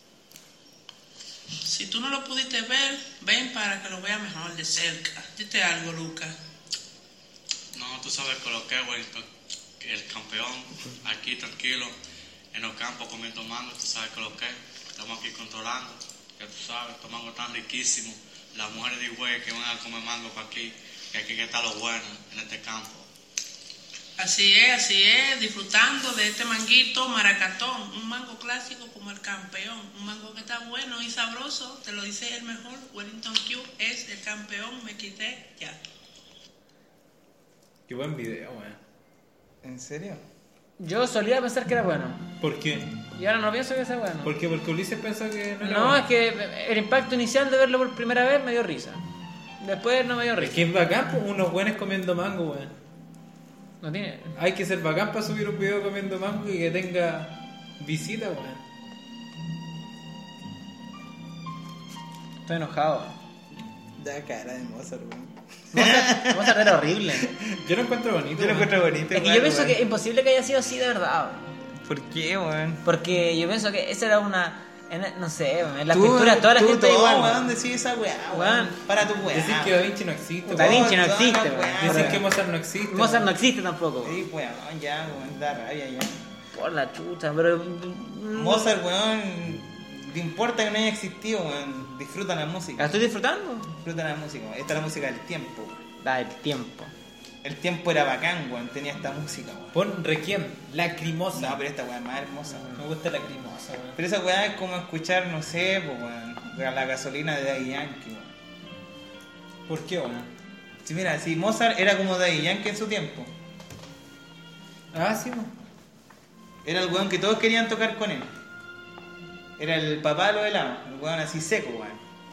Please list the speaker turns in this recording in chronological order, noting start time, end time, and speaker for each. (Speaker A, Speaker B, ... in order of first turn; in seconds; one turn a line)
Speaker A: 1.6-6.3
Speaker B: 7.7-9.3
Speaker B: 9.8-11.9
Speaker B: 12.5-23.1
Speaker A: 24.2-35.8
Speaker C: 37.9-38.8
Speaker D: 39.6-40.2
Speaker E: 40.8-42.2
Speaker C: 42.4-42.9
Speaker E: 43.1-44.3
Speaker C: 44.2-46.0
Speaker E: 45.6-49.0
Speaker E: 49.6-50.7
Speaker C: 50.4-52.7
Speaker E: 53.8-54.4
Speaker C: 54.4-58.6
Speaker E: 62.5-63.1
Speaker D: 64.0-67.6
Speaker E: 65.7-67.3
Speaker C: 67.6-68.7
Speaker D: 68.3-69.8
Speaker E: 69.1-71.5
Speaker D: 71.8-72.8
Speaker E: 72.8-77.5
Speaker D: 75.9-79.8
Speaker E: 78.3-78.7
Speaker C: 79.3-80.9
Speaker D: 80.5-82.3
Speaker E: 80.5-82.2
Speaker C: 81.8-83.3
Speaker E: 82.9-84.2
Speaker D: 84.0-86.2
Speaker E: 86.5-88.8
Speaker D: 88.3-93.0
Speaker E: 92.8-93.7
Speaker D: 93.8-95.8
Speaker E: 96.0-96.9
Speaker D: 97.4-99.8
Speaker C: 99.7-101.6
Speaker D: 101.3-102.7
Speaker C: 102.8-104.0
Speaker D: 104.0-108.3
Speaker C: 109.7-110.3
Speaker D: 110.8-113.3
Speaker C: 114.9-115.5
Speaker D: 116.7-118.3
Speaker D: 119.6-122.0